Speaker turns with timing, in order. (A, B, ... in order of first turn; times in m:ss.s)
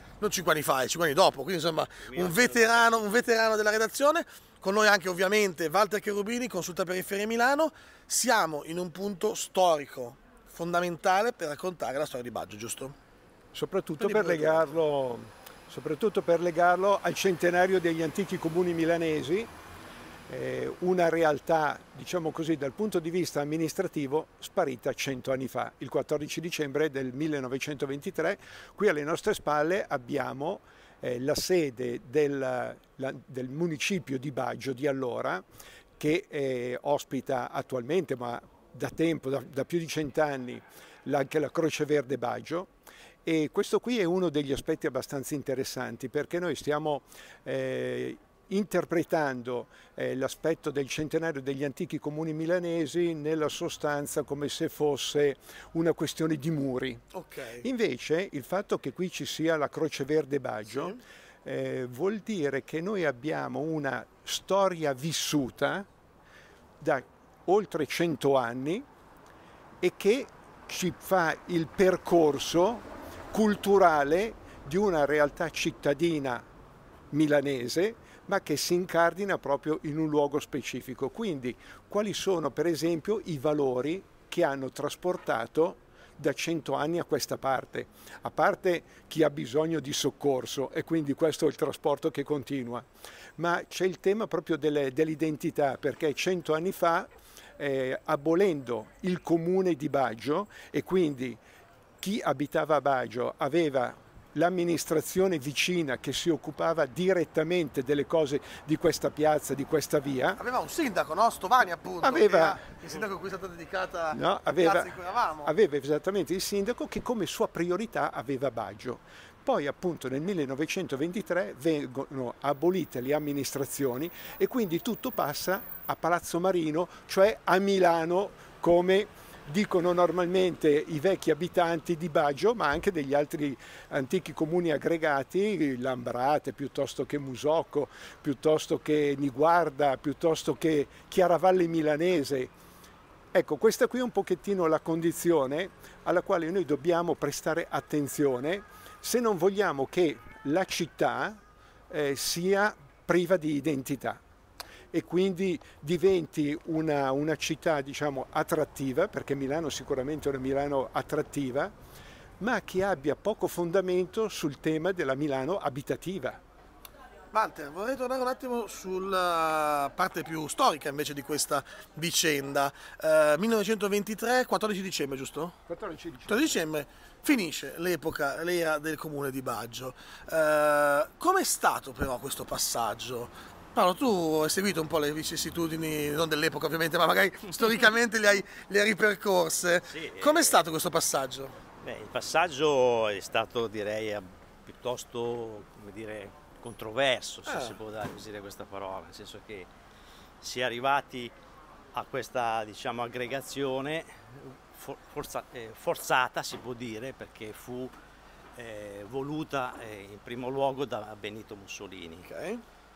0:00.2-0:13.0 A
0:02.0-0:03.1 B
0:13.5-0:19.5 C
0:14.0-0:14.7 A
0:20.3-0:35.4 C
0:36.0-0:42.7 C
0:43.2-0:57.1 C
0:57.1-0:57.6 A
0:57.6-1:05.9 C
1:00.7-1:01.0 A
1:06.8-1:08.9 C
1:09.8-1:16.5 C
1:17.1-1:41.4 C
1:42.0-1:50.4 C
1:50.4-1:55.5 A
1:52.0-1:52.7 C
1:54.1-2:22.5 C
2:23.3-2:34.2 C
2:34.9-2:41.8 C
2:42.4-2:46.4 C
2:47.3-2:55.6 A
2:55.7-2:56.6 C
2:56.3-3:11.6 A
3:09.9-3:10.6 B
3:11.8-3:19.7 B
3:17.5-3:17.8 A
3:20.4-3:21.3 B
3:21.9-3:27.9 B
3:28.6-3:32.3 B
3:32.2-3:32.6 A